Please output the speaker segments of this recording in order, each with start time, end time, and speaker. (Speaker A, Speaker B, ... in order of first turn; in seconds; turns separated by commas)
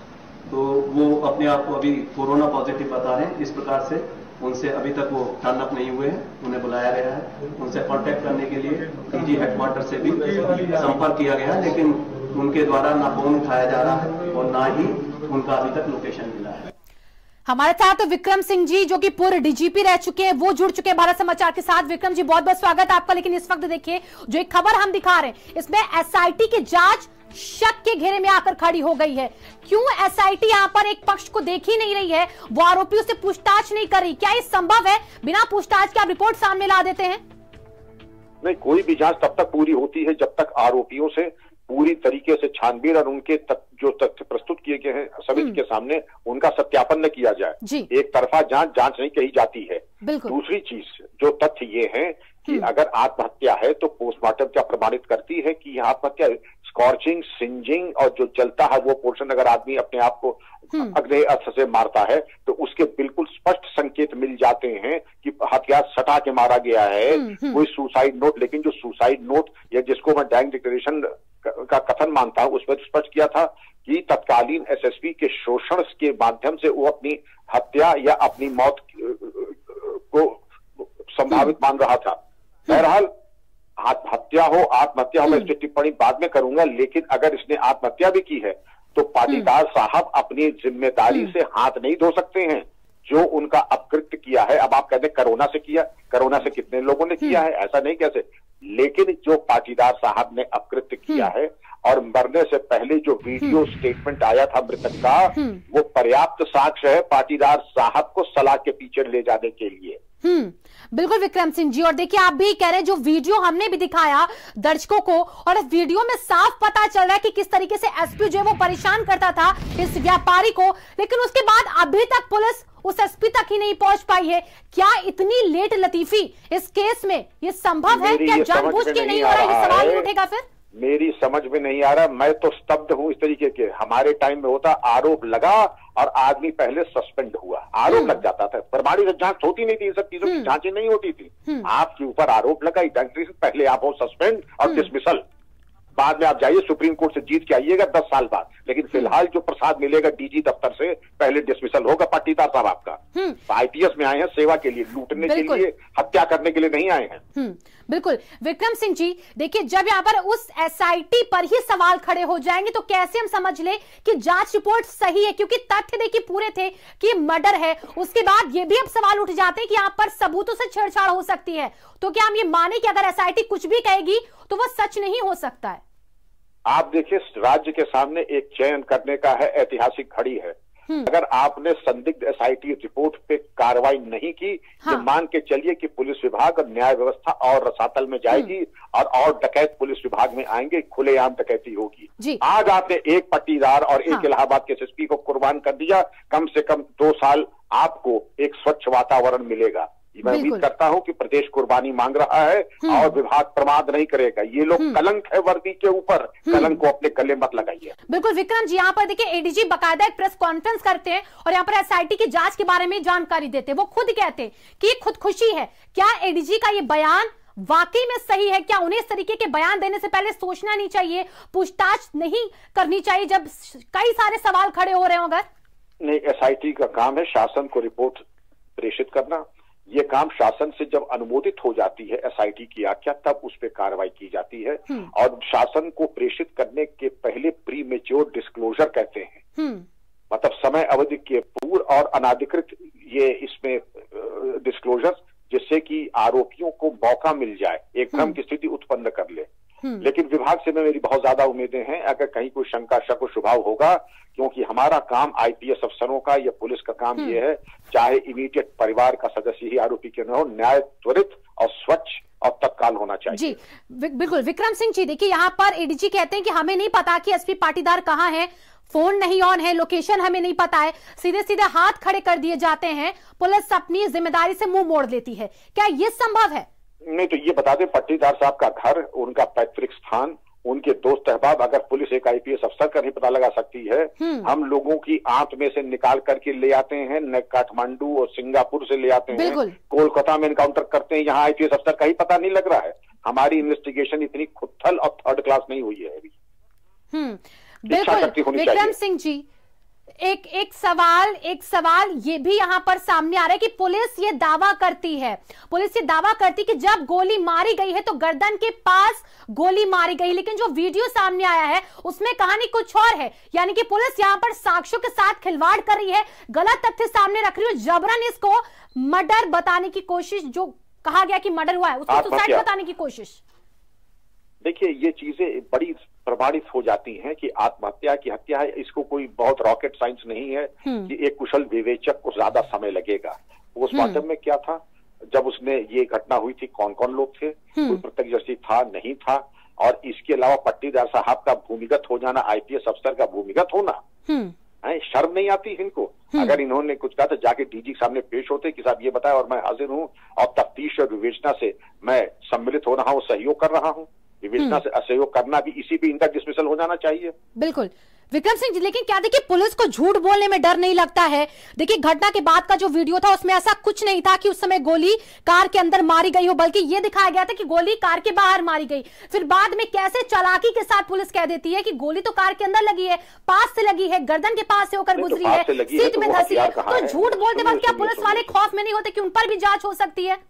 Speaker A: 0.5-16.7, Speaker B: 17.5-37.2, Speaker C: 38.4-83.1, Speaker B: 47.6-47.9, Speaker B: 50.0-50.4, Speaker B: 67.1-67.6, Speaker C: 83.8-110.0, Speaker B: 105.3-105.6, Speaker B: 110.2-130.4, Speaker C: 127.9-130.1, Speaker C: 130.8-145.2, Speaker B: 137.9-138.2, Speaker B: 140.2-140.5, Speaker C: 146.0-157.2, Speaker B: 153.1-153.4, Speaker B: 155.2-155.7, Speaker B: 157.3-175.8, Speaker C: 176.7-180.5, Speaker C: 181.1-207.9, Speaker B: 200.2-200.6, Speaker B: 202.8-203.1, Speaker B: 206.5-206.8, Speaker B: 208.1-225.4, Speaker C: 226.0-228.2, Speaker C: 228.8-239.4, Speaker B: 239.6-239.8, Speaker C: 240.3-249.5, Speaker C: 250.0-263.6, Speaker B: 263.3-276.7, Speaker C: 277.1-296.3, Speaker B: 284.2-284.5, Speaker B: 289.3-289.8, Speaker B: 297.1-299.4, Speaker C: 297.9-298.9, Speaker B: 300.2-323.4, Speaker C: 322.1-322.6, Speaker C: 324.6-334.8, Speaker B: 330.8-331.1, Speaker B: 333.9-334.2, Speaker C: 335.3-344.0, Speaker B: 337.7-338.0, Speaker B: 344.3-344.5, Speaker C: 344.8-357.3, Speaker B: 357.6-380.4, Speaker C: 375.1-378.6